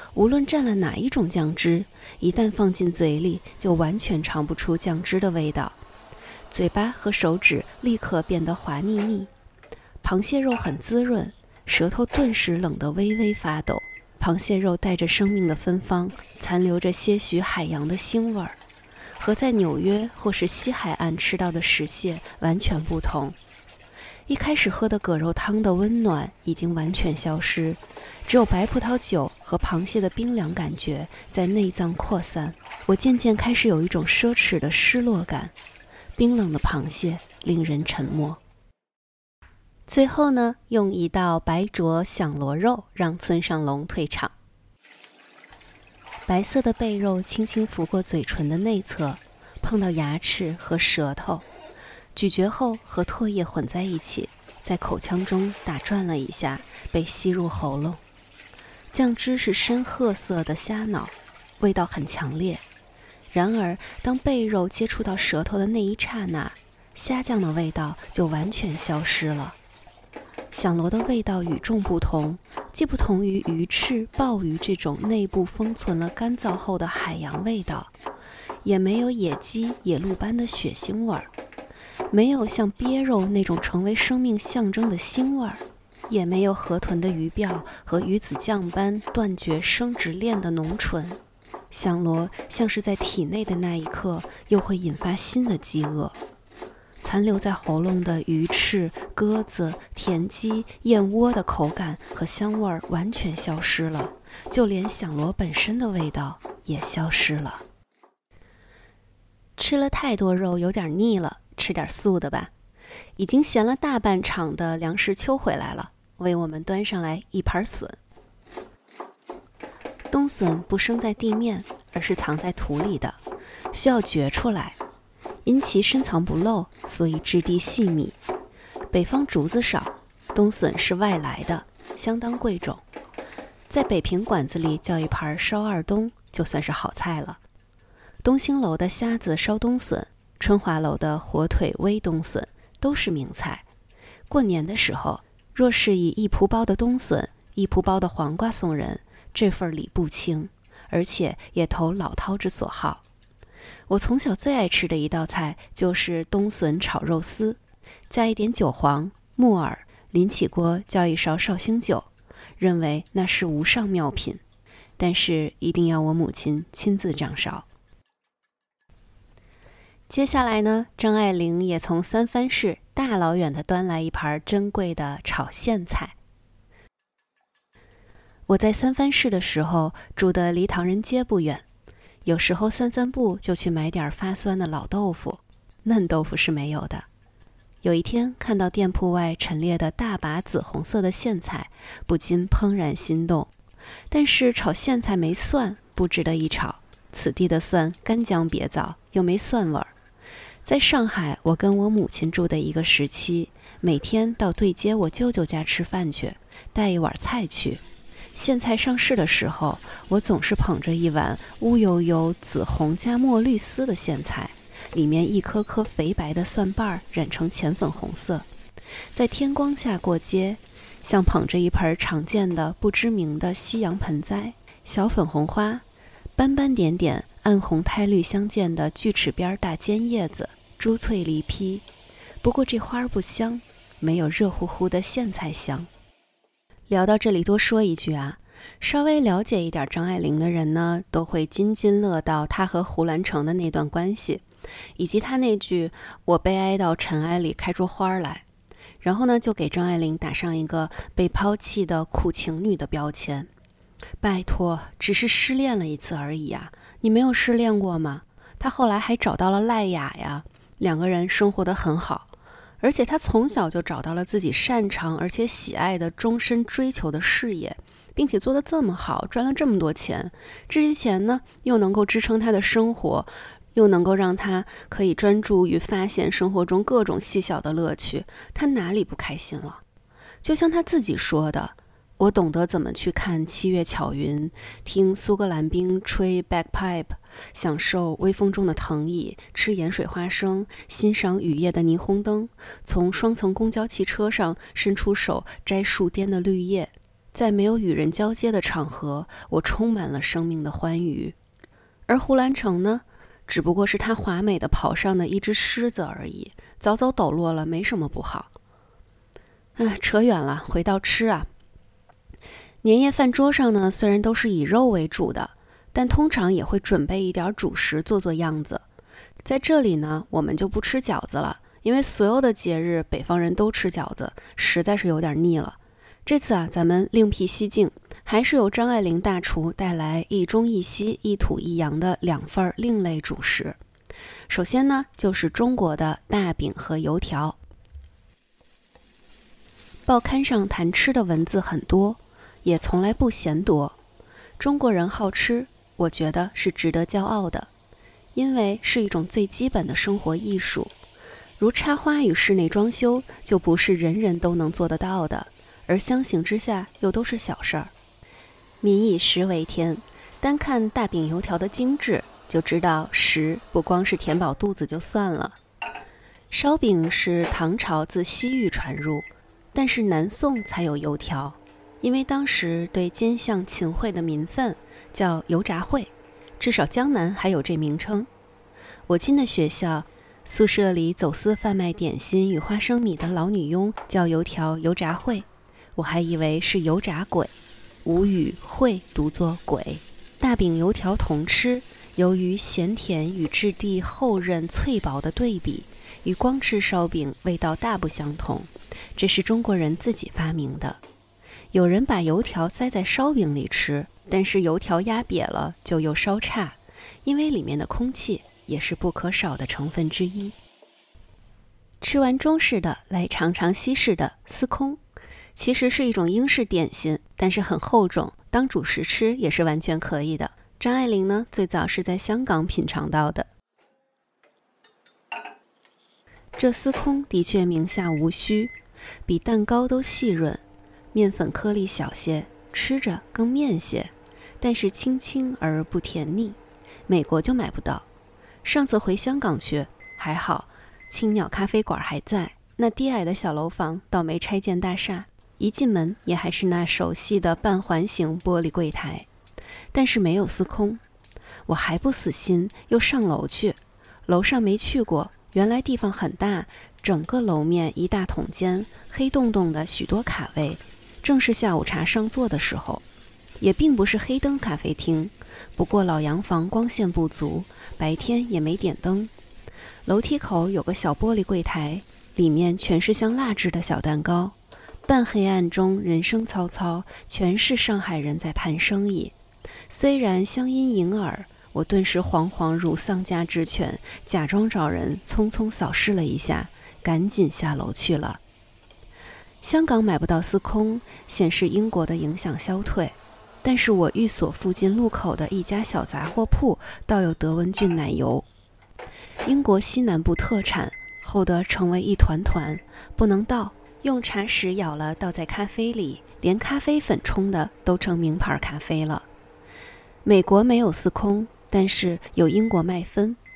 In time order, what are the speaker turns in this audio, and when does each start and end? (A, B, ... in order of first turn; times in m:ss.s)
0:00.1-0:05.8 A
0:06.5-0:09.3 A
0:10.0-0:18.6 A
0:19.2-0:23.4 A
0:24.3-0:35.5 A
0:36.2-0:38.4 A
0:39.9-0:44.3 A
0:46.3-0:51.5 A
0:52.2-0:58.0 A
0:58.9-1:02.6 A
1:03.3-1:09.6 A
1:10.5-1:17.9 A
1:18.6-1:21.3 A
1:22.1-1:31.2 A
1:31.7-1:36.2 A
1:37.0-1:47.6 A
1:49.6-1:52.5 A
1:53.2-1:58.0 A
2:00.1-2:03.2 A
2:03.7-2:04.8 A
2:05.4-2:08.2 A
2:08.9-2:12.8 A
2:13.7-2:17.4 A
2:18.2-2:23.6 A
2:24.3-2:33.0 A
2:33.9-2:37.6 A
2:38.1-2:44.4 A
2:45.0-2:47.7 A
2:50.1-2:56.2 A
2:58.5-3:01.6 A
3:02.2-3:07.1 A
3:07.8-3:13.5 A
3:14.1-3:19.9 A
3:20.6-3:27.8 A
3:28.4-3:38.5 A
3:39.1-3:45.8 A
3:46.4-3:51.8 A
3:52.4-3:55.9 A
3:56.9-4:04.4 A
4:05.0-4:08.4 A
4:09.0-4:13.5 A
4:14.2-4:22.3 A
4:22.8-4:39.8 A
4:40.4-5:01.4 A
5:02.1-5:08.5 A
5:09.8-5:11.5 A
5:12.8-5:18.8 A
5:19.4-5:33.8 A
5:34.5-5:37.6 A
5:40.1-5:44.0 A
5:44.6-5:47.7 A
5:48.4-5:50.9 A
5:51.6-5:57.9 A
5:58.8-6:05.6 A
6:06.5-6:18.3 A
6:19.1-6:27.5 A
6:28.0-6:41.0 A
6:41.7-6:50.6 A
6:52.0-6:55.0 A
6:55.6-7:03.5 A
7:06.6-7:08.7 A
7:09.3-7:10.6 A
7:11.1-7:18.1 A
7:18.6-7:29.3 A
7:29.9-7:31.0 A
7:31.7-7:43.0 A
7:43.6-7:49.3 A
7:50.1-7:59.3 A
7:59.9-8:08.4 A
8:09.6-8:18.5 A
8:19.4-8:29.3 A
8:30.2-8:33.4 A